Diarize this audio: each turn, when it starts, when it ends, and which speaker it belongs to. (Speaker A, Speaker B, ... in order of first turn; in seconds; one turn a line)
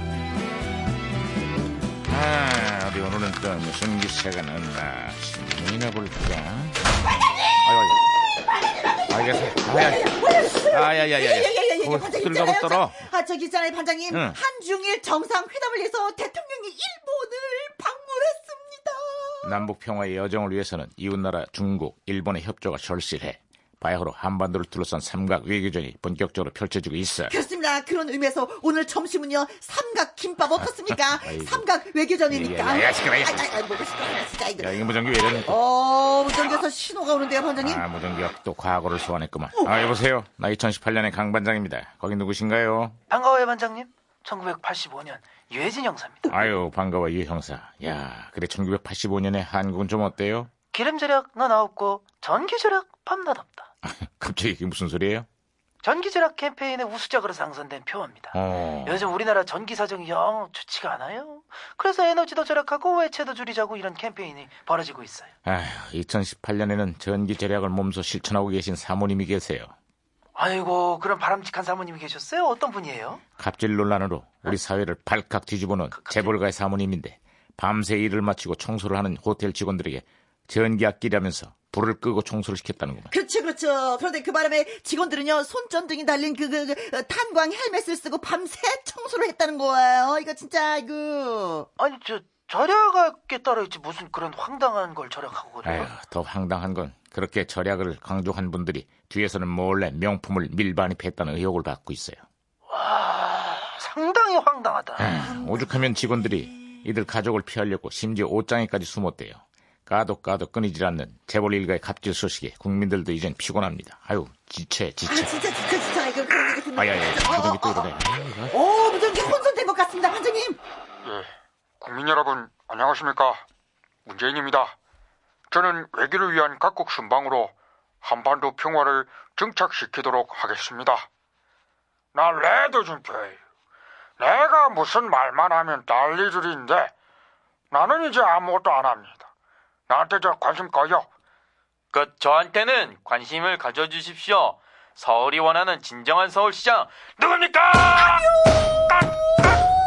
Speaker A: 2.1-6.8
Speaker A: 7.6-8.0
Speaker A: 9.1-10.1
Speaker B: 9.6-19.6
Speaker A: 10.7-13.0
Speaker A: 14.1-14.4
Speaker A: 19.4-27.4
Speaker B: 27.3-37.8
Speaker A: 31.1-31.7
Speaker A: 32.3-33.5
Speaker A: 34.6-35.6
Speaker A: 37.6-43.0
Speaker C: 43.1-46.4
Speaker A: 46.3-50.5
Speaker C: 50.7-53.7
Speaker A: 53.8-55.3
Speaker C: 55.8-65.3
Speaker A: 58.3-59.1
Speaker A: 65.5-69.7
Speaker C: 70.3-73.2
Speaker A: 73.4-83.1
Speaker C: 76.0-76.3
Speaker B: 83.1-91.7
Speaker C: 91.8-95.9
Speaker A: 95.7-102.2
Speaker C: 102.7-105.1
Speaker A: 105.0-115.3
Speaker B: 105.2-105.7
Speaker B: 115.1-117.9
Speaker A: 116.7-118.5
Speaker B: 118.5-120.6
Speaker D: 121.8-123.4
Speaker D: 124.1-124.8
Speaker D: 125.5-131.1
Speaker D: 132.1-133.4
Speaker D: 134.2-136.9
Speaker D: 137.7-139.3
Speaker D: 139.9-141.1
Speaker E: 141.9-147.2
Speaker D: 147.2-148.3